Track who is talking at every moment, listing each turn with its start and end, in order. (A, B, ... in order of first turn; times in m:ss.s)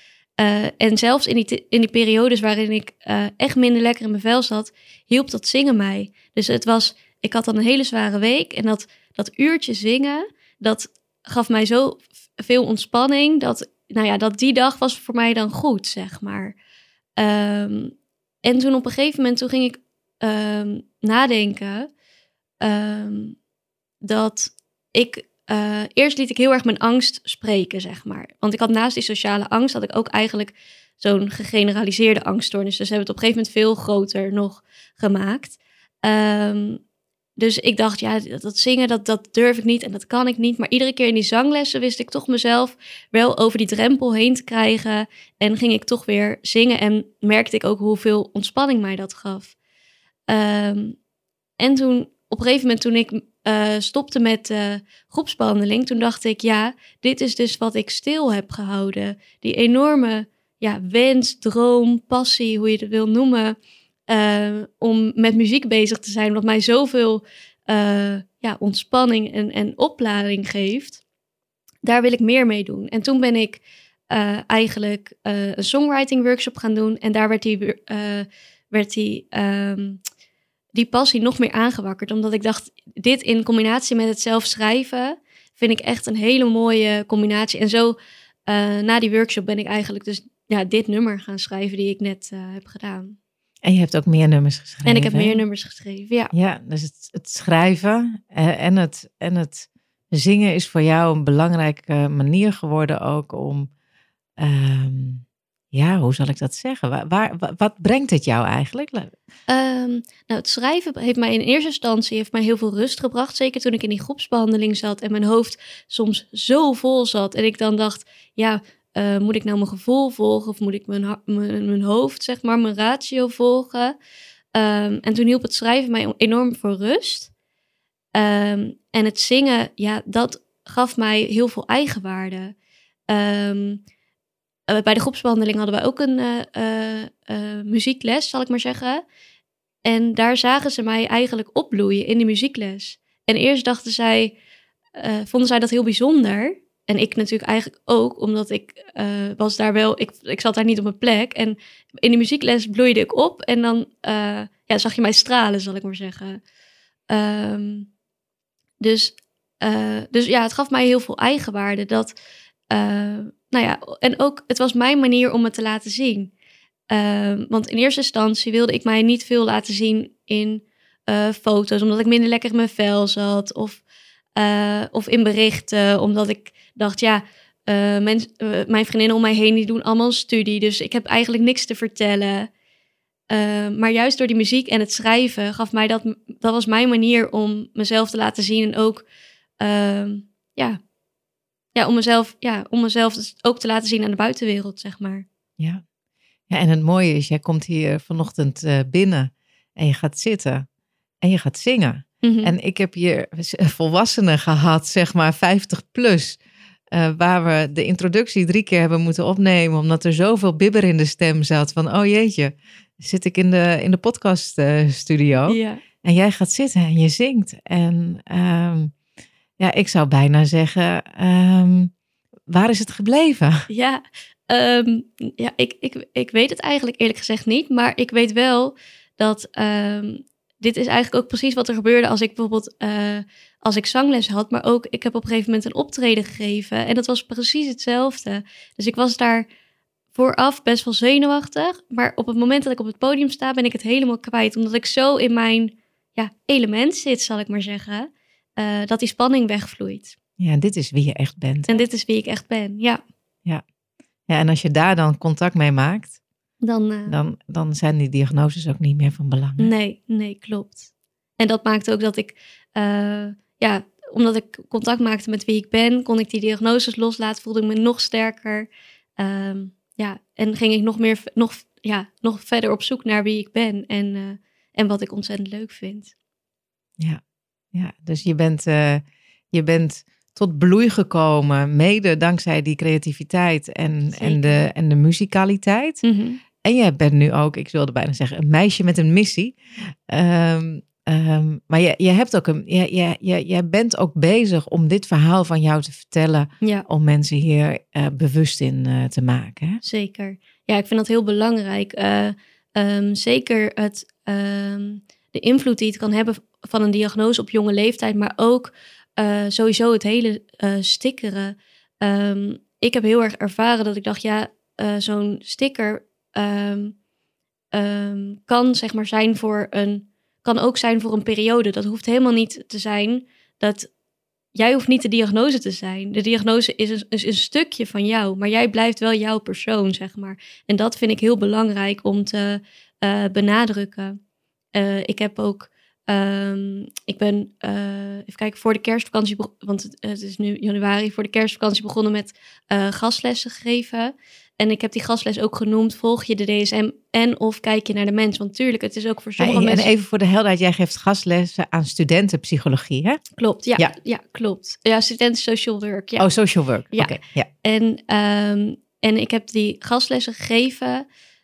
0:00.4-0:16.6 A
0:17.2-0:21.9 A
0:22.6-0:23.4 A
0:24.0-0:36.8 A
0:37.4-0:49.5 A
0:50.3-0:51.0 A
0:51.6-1:03.6 A
1:04.1-1:11.0 A
1:11.8-1:20.0 A
1:20.7-1:33.2 A
1:33.6-1:35.4 B
1:34.8-1:36.3 A
1:36.3-1:43.7 B
1:44.4-1:49.1 B
1:49.5-2:04.0 A
2:04.5-2:07.3 A
2:08.1-2:12.5 A
2:13.1-2:13.8 A
2:14.7-2:19.0 A
2:19.8-2:24.4 A
2:25.0-2:36.4 A
2:37.1-2:37.9 A
2:38.8-2:42.1 A
2:42.7-2:46.3 A
2:46.9-2:53.8 A
2:54.4-3:02.5 A
3:03.3-3:09.0 A
3:09.6-3:10.8 A
3:11.7-3:15.2 A
3:16.5-3:20.6 B
3:21.2-3:26.4 B
3:22.2-3:22.5 A
3:26.9-3:38.9 B
3:35.5-3:35.8 A
3:39.6-3:41.9 B
3:42.5-3:43.7 B
3:43.7-3:59.5 A
4:00.1-4:10.2 A
4:10.4-4:11.8 B
4:11.7-4:13.0 A
4:14.3-4:16.2 B
4:16.6-4:17.2 A
4:17.1-4:19.7 B
4:19.6-4:36.1 A
4:37.7-4:46.0 B
4:44.1-4:44.7 A
4:46.0-4:46.4 A
4:46.6-4:49.6 B
4:50.1-4:59.8 B
4:59.8-5:17.0 A
5:17.7-5:23.9 A
5:24.5-5:34.2 A
5:34.7-5:49.9 A
5:49.4-5:53.2 B
5:53.4-5:56.3 A
5:56.2-5:57.5 B
5:56.9-6:01.0 A